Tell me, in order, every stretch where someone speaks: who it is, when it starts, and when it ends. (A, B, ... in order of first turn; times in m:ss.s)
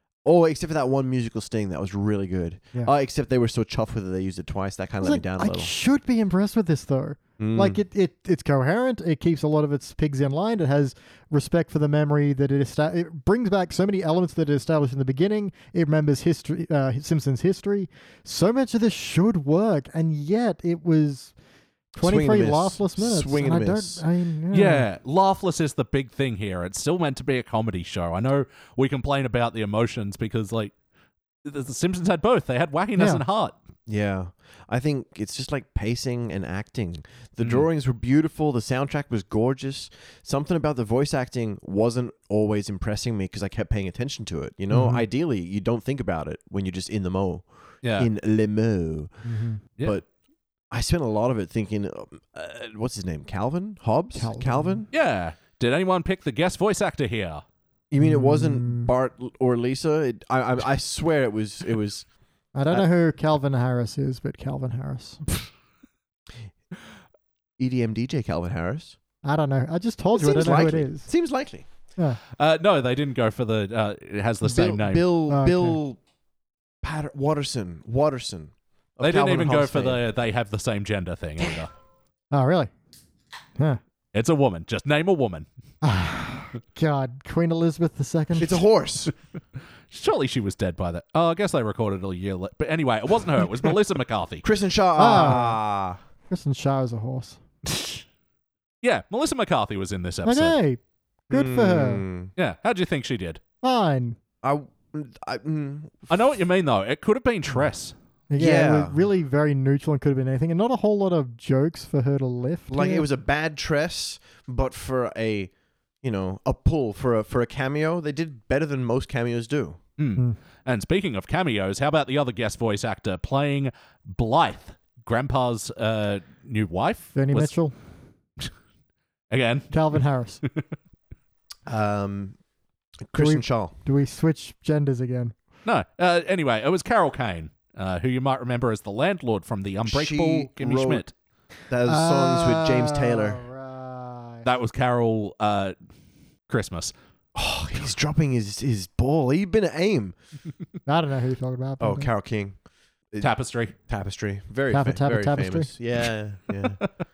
0:00.2-0:05.7 A
0:05.0-0:21.3 B
0:07.4-0:07.8 A
0:22.0-0:24.0 A
0:22.0-0:24.9 B
0:24.5-0:30.7 C
0:31.4-0:33.6 C
0:33.0-0:33.2 B
0:33.9-0:49.2 A
0:44.7-0:45.0 B
0:47.8-0:48.1 C
0:49.2-0:49.6 B
0:50.7-0:54.9 A
0:54.2-0:54.8 B
0:54.9-0:57.4 C
0:57.9-1:02.1 A
0:58.0-0:58.9 B
1:02.6-1:05.2 B
1:07.6-1:09.0 A
1:09.2-1:11.1 B
1:10.2-1:11.7 A
1:12.4-1:15.0 C
1:14.4-1:16.0 A
1:15.3-1:15.8 B
1:16.8-1:20.0 A
1:19.0-1:21.7 C
1:22.3-1:22.7 B
1:24.1-1:25.5 C
1:25.8-1:28.6 B
1:28.4-1:29.1 A
1:29.9-1:34.4 C
1:34.4-1:36.0 A
1:35.0-1:35.6 B
1:36.3-1:37.4 B
1:38.8-1:40.6 C
1:40.2-1:42.0 B
1:41.3-1:42.3 A
1:42.4-1:43.4 C
1:43.6-1:44.2 B
1:44.4-1:46.1 A
1:46.1-1:47.9 C
1:48.3-1:53.1 B
1:48.4-1:49.0 A
1:52.7-1:55.5 A
1:56.0-1:59.8 A
2:00.0-2:07.5 C
2:07.2-2:07.7 B
2:09.3-2:09.7 C
2:09.7-2:10.4 B
2:11.7-2:12.4 A
2:13.1-2:13.7 A
2:13.2-2:15.4 B
2:15.6-2:21.1 C
2:19.9-2:21.0 A
2:21.7-2:23.4 A
2:21.9-2:24.5 B
2:24.4-2:25.8 C
2:26.5-2:26.9 C
2:27.4-2:30.2 A
2:30.9-2:32.1 B
2:31.8-2:32.6 A
2:33.2-2:33.8 C
2:33.9-2:36.8 A
2:34.7-2:35.7 B